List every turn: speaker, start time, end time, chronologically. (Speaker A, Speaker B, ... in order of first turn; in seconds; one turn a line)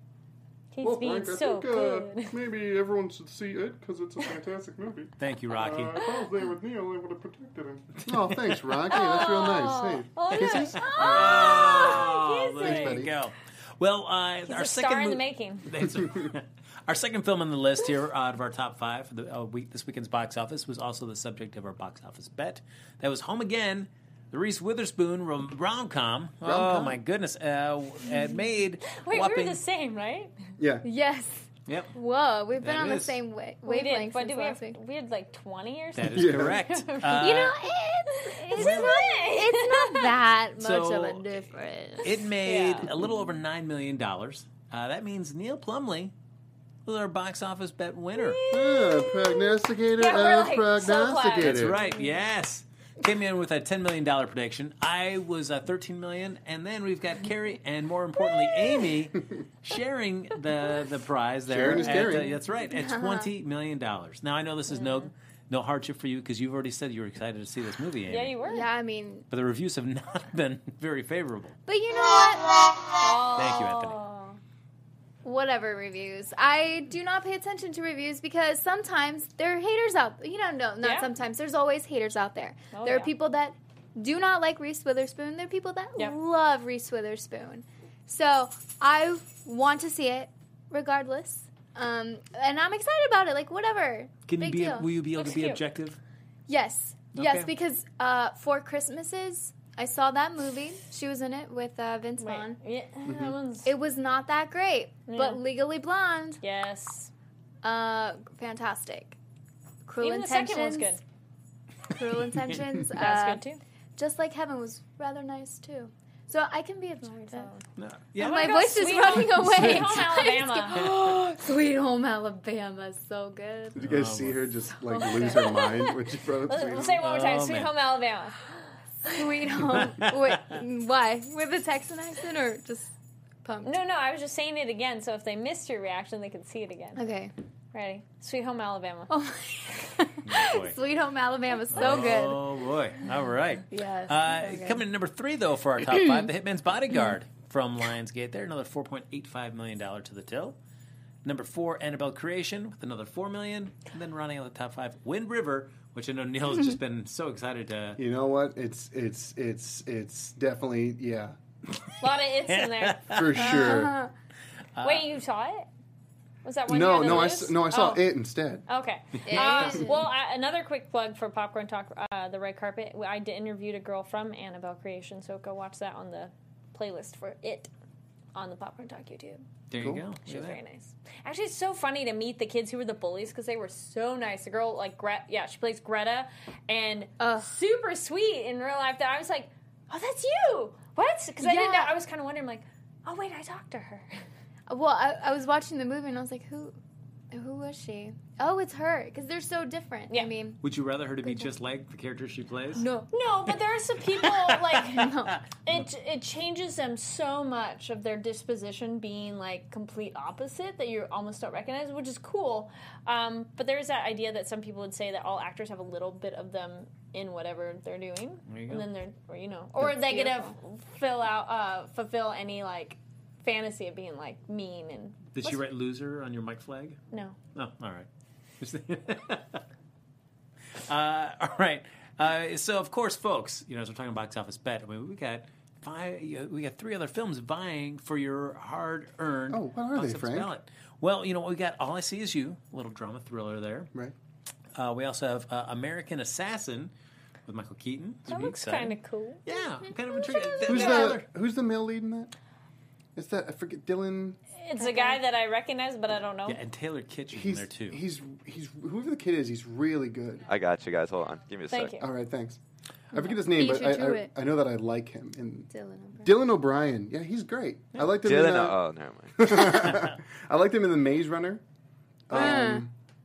Speaker A: 0.7-2.4
Speaker B: 0.8-13.1
Speaker C: 5.2-6.0
Speaker A: 6.0-6.3
Speaker C: 8.0-8.8
Speaker A: 8.9-13.1
Speaker C: 10.3-29.6
Speaker A: 14.5-16.0
Speaker B: 26.4-27.0
Speaker A: 28.9-30.3
Speaker B: 30.6-30.9
Speaker D: 30.8-34.8
Speaker C: 31.7-31.9
Speaker C: 32.6-33.2
Speaker A: 33.6-40.2
Speaker C: 36.0-37.6
Speaker B: 36.1-36.6
Speaker D: 37.1-42.2
Speaker C: 38.5-39.0
Speaker C: 40.6-41.3
Speaker C: 42.0-46.1
Speaker A: 42.5-42.9
Speaker C: 46.9-48.4
Speaker A: 48.1-52.2
Speaker B: 48.5-51.8
Speaker C: 51.4-68.3
Speaker B: 61.5-62.4
Speaker D: 61.8-62.1
Speaker D: 62.6-63.3
Speaker A: 64.7-65.1
Speaker A: 68.1-68.7
Speaker D: 68.4-69.3
Speaker C: 69.3-71.6
Speaker D: 71.7-72.6
Speaker A: 73.0-74.4
Speaker C: 73.4-74.0
Speaker D: 75.2-94.9
Speaker A: 80.8-81.1
Speaker A: 82.7-83.1
Speaker C: 94.3-96.0
Speaker A: 95.2-95.6
Speaker D: 96.5-102.6
Speaker C: 97.1-97.5
Speaker A: 102.2-103.7
Speaker B: 103.0-103.4
Speaker D: 103.7-106.4
Speaker A: 105.1-105.4
Speaker A: 106.4-107.1
Speaker D: 107.6-109.2
Speaker D: 109.9-111.0
Speaker A: 110.0-111.0
Speaker D: 111.9-113.4
Speaker A: 113.0-113.6
Speaker D: 114.0-117.5
Speaker A: 117.0-117.6
Speaker C: 117.8-118.5
Speaker D: 118.2-123.8
Speaker A: 118.2-120.9
Speaker C: 119.5-120.0
Speaker C: 123.8-124.5
Speaker B: 123.8-127.0
Speaker D: 124.9-125.7
Speaker A: 125.0-129.1
Speaker C: 127.0-127.7
Speaker D: 129.0-132.9
Speaker C: 129.7-130.1
Speaker D: 133.4-133.8
Speaker A: 133.6-137.0
Speaker D: 137.0-137.3
Speaker A: 137.7-139.1
Speaker D: 139.1-142.6
Speaker C: 140.2-140.8
Speaker C: 141.7-150.6
Speaker D: 143.7-144.8
Speaker C: 151.2-158.0
Speaker B: 158.0-161.4
Speaker A: 162.0-163.7
Speaker C: 162.5-163.8
Speaker B: 163.1-164.0
Speaker D: 163.4-164.1
Speaker C: 164.8-165.1
Speaker A: 164.8-165.7
Speaker A: 166.4-168.1
Speaker B: 166.7-168.7
Speaker A: 168.7-177.7
Speaker D: 169.3-170.1
Speaker A: 178.3-179.4
Speaker C: 179.7-180.6
Speaker A: 180.2-194.1
Speaker D: 187.2-187.5
Speaker D: 191.4-192.0
Speaker D: 194.7-196.8
Speaker D: 197.3-200.6
Speaker C: 200.6-202.9
Speaker D: 202.8-203.1
Speaker A: 203.1-225.6
Speaker C: 204.2-205.4
Speaker D: 204.9-205.4
Speaker C: 218.5-218.9
Speaker D: 219.8-220.5
Speaker C: 225.3-227.0
Speaker A: 227.1-227.4
Speaker C: 227.5-228.1
Speaker C: 228.6-229.6
Speaker C: 230.8-243.9
Speaker B: 239.5-240.5
Speaker C: 244.8-246.9
Speaker C: 247.5-251.3
Speaker A: 248.3-249.4
Speaker D: 250.6-250.9
Speaker A: 250.6-251.1
Speaker B: 250.7-252.3
Speaker B: 253.2-254.4
Speaker A: 254.6-256.6
Speaker D: 254.8-255.2
Speaker C: 256.5-258.0
Speaker B: 257.3-260.5
Speaker E: 260.5-262.0
Speaker A: 261.7-262.1
Speaker B: 262.0-262.6
Speaker B: 263.1-265.7
Speaker D: 263.2-264.3
Speaker D: 265.7-266.3
Speaker B: 266.2-268.8
Speaker E: 268.2-269.8
Speaker B: 269.4-271.6
Speaker B: 272.3-272.9
Speaker D: 272.3-272.9